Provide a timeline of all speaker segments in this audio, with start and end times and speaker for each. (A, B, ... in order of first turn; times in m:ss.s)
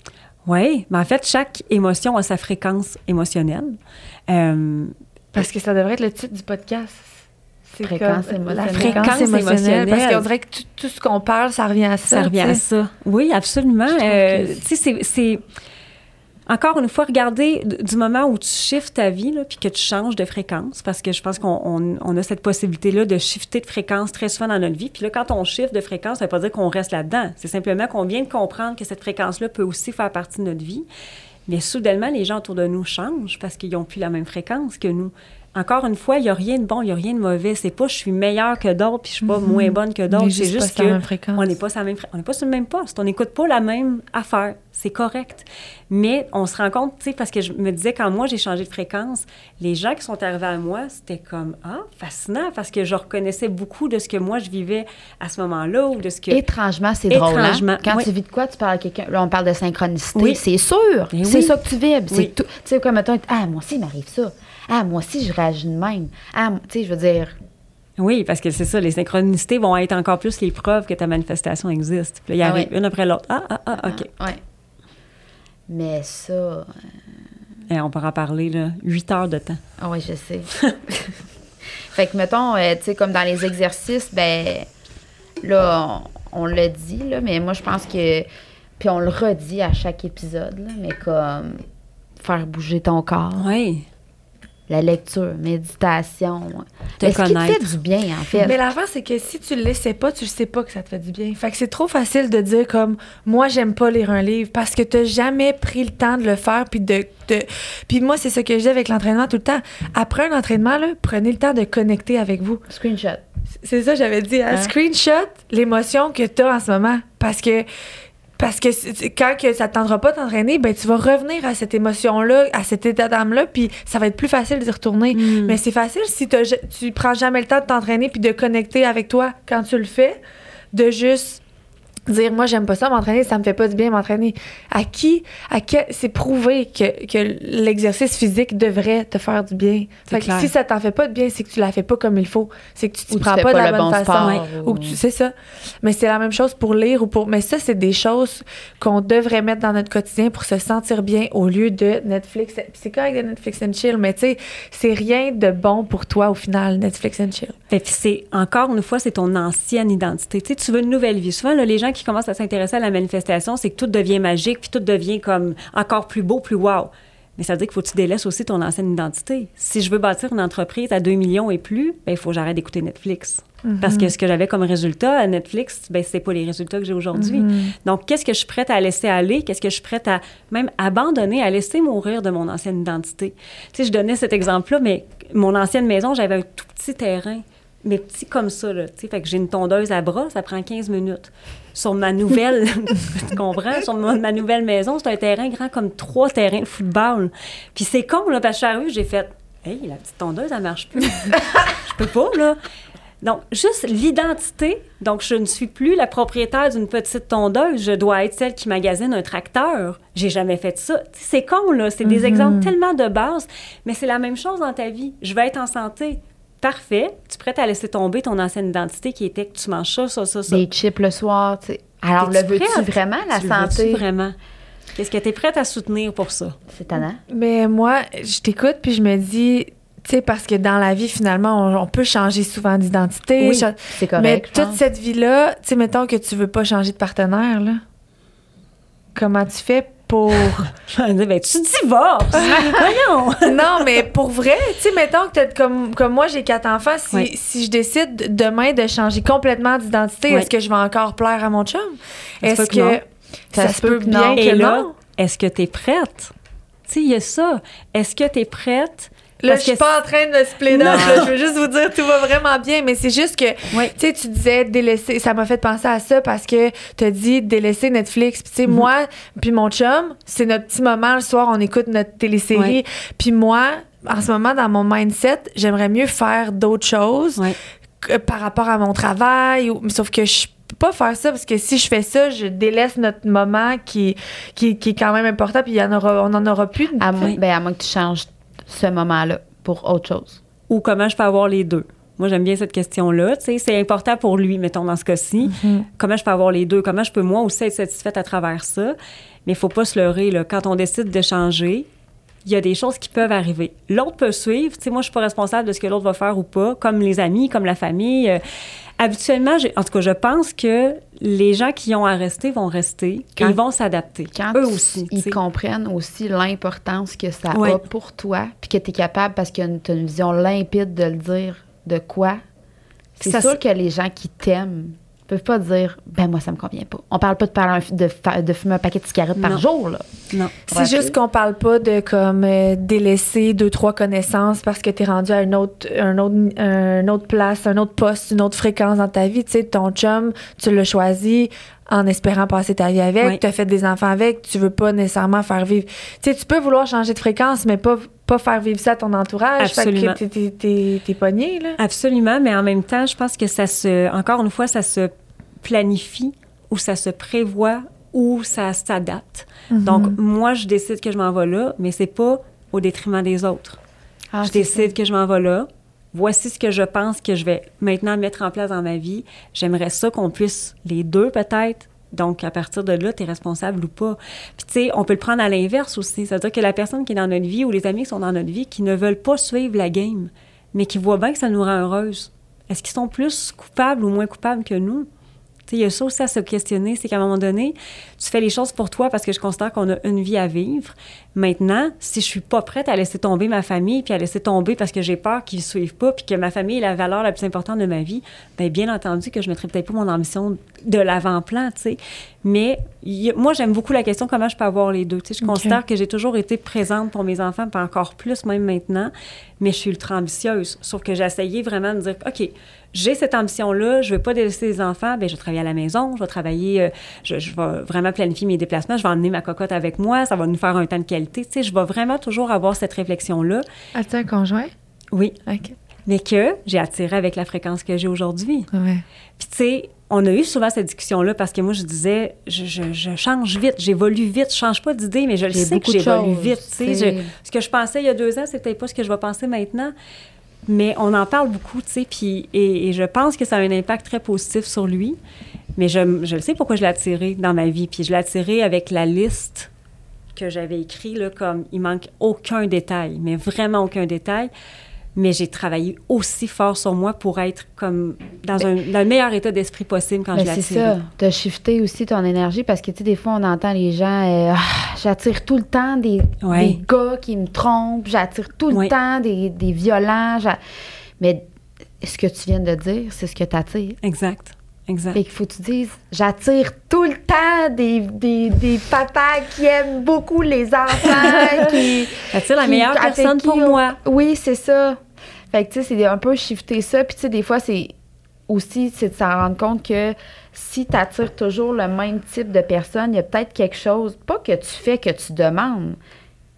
0:00.4-0:05.0 A
0:05.3-0:07.1 B
0:07.7-0:12.6 B
0:07.8-0:09.6 C
0:08.7-0:10.2 A
0:12.1-0:15.4 A
0:13.9-0:14.6 B
0:16.5-0:30.8 A
0:31.5-0:56.4 A
0:39.2-0:41.6 B
0:56.3-1:07.4 C
0:57.1-0:58.1 A
1:00.1-1:00.4 A
1:01.1-1:01.6 A
1:08.0-1:14.1 A
1:12.4-1:12.7 C
1:13.8-1:14.4 C
1:15.7-1:16.7 C
1:17.7-1:19.6 A
1:19.8-1:21.1 C
1:21.9-1:24.7 C
1:25.4-1:28.3 C
1:28.8-1:31.6 C
1:32.2-1:33.5 C
1:33.4-1:33.8 A
1:34.7-1:38.6 C
1:37.0-1:37.7 A
1:38.4-1:52.6 B
1:52.7-1:53.2 C
1:53.6-1:57.6 B
1:58.4-2:10.2 B
2:05.1-2:05.6 A
2:10.7-2:11.4 B
2:12.1-2:37.6 B
2:20.1-2:20.5 A
2:23.1-2:25.0 C
2:37.7-3:22.6 A
2:53.6-2:54.1 B
2:57.1-2:57.7 B
3:23.2-3:40.6 A
3:32.0-3:32.7 B
3:40.5-3:44.0 C
3:42.2-3:44.4 A
3:44.9-3:46.6 A
3:46.7-3:47.2 C
3:47.3-3:57.8 B
3:53.4-3:53.6 A
3:53.9-3:54.8 C
3:59.1-4:00.7 B
4:00.3-4:03.9 A
4:02.4-4:02.7 B
4:03.4-4:14.9 B
4:12.4-4:13.0 A
4:13.5-4:14.5 C
4:14.4-4:16.3 A
4:16.9-4:19.9 A
4:19.4-4:37.4 B
4:20.7-4:21.3 A
4:38.0-4:47.2 B
4:47.0-4:50.4 C
4:50.7-5:01.9 A
4:55.5-4:55.8 B
5:02.4-5:08.4 A
5:09.0-5:15.4 A
5:14.3-5:22.4 C
5:17.5-5:17.8 A
5:23.2-5:30.0 C
5:23.2-5:23.6 A
5:29.4-5:29.6 A
5:30.7-5:31.2 C
5:30.7-5:51.8 B
5:49.6-5:50.2 A
5:51.8-5:55.1 A
5:55.6-6:03.8 A
5:59.7-6:00.2 B
6:04.3-6:04.9 C
6:04.4-6:25.1 A
6:25.7-7:03.6 A
6:45.4-6:45.8 B
7:03.9-7:04.7 B
7:05.5-7:05.7 B
7:06.1-7:08.7 A
7:08.7-7:09.0 B
7:09.4-7:19.9 A
7:15.5-7:17.3 C
7:20.7-7:25.2 A
7:25.8-7:29.7 A
7:30.3-7:34.5 A
7:35.2-7:41.0 A
7:40.3-7:50.6 C
7:46.4-7:46.8 A
7:52.0-7:54.0 C
7:54.0-7:55.2 A
7:55.1-8:05.0 C
8:02.3-8:04.0 A
8:05.5-8:07.9 C
8:08.5-8:16.0 C